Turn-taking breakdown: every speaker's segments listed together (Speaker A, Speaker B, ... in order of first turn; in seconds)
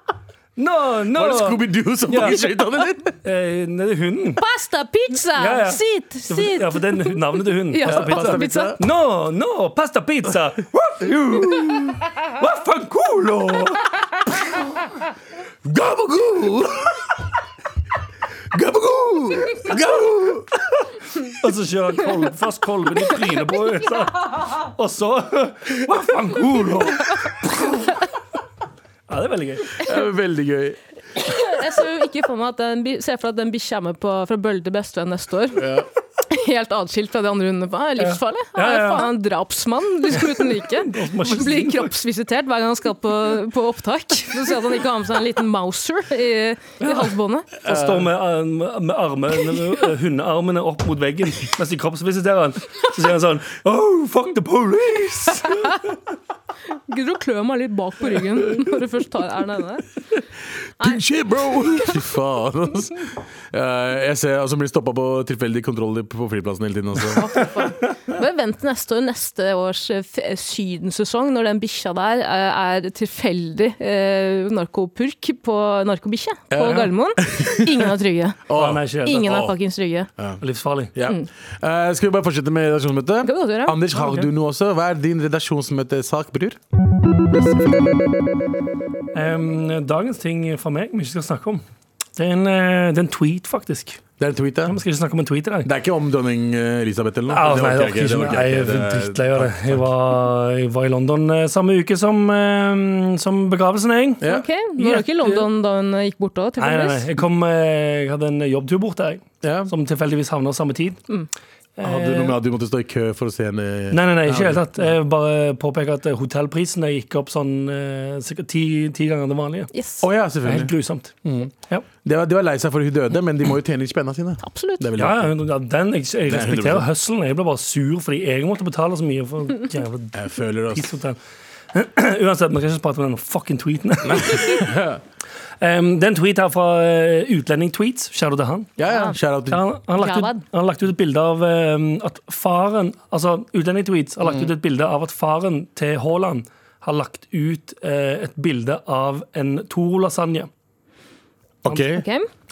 Speaker A: 0.6-2.4, 3.2-4.4, 5.4-13.8, 21.3-27.8, 29.1-29.8, 38.0-39.1, 40.1-41.9, 46.8-55.8, 78.5-79.4, 80.4-80.9, 84.0-84.3, 87.3-88.0, 89.1-91.6, 92.2-94.0, 94.7-95.7, 97.3-104.2, 104.8-105.5, 106.6-111.0, 111.8-112.4, 113.9-119.7, 120.4-121.2, 125.0-131.2, 131.7-134.7, 135.6-138.7, 139.5-150.5
Speaker B: 1.1-3.1, 7.8-8.8, 11.1-11.9, 15.6-17.1, 18.5-20.5, 29.8-30.8, 35.6-35.9, 47.6-48.1, 60.8-67.4, 76.5-77.9, 78.5-79.5, 80.9-86.6, 94.2-94.8, 95.6-99.9, 109.4-109.7, 111.8-114.8, 120.0-121.5, 122.0-125.3, 126.3-126.9, 130.1-130.9, 134.0-135.0, 138.8-139.6, 144.2-144.5, 151.6-152.0
Speaker C: 4.4-7.2, 7.7-8.7, 31.2-35.7, 36.3-47.5, 56.9-59.8, 61.7-62.0, 67.1-78.4, 79.0-80.1, 83.2-83.8, 104.2-107.0, 119.7-120.0, 124.4-124.9, 138.8-139.2, 140.0-140.4, 151.9-152.3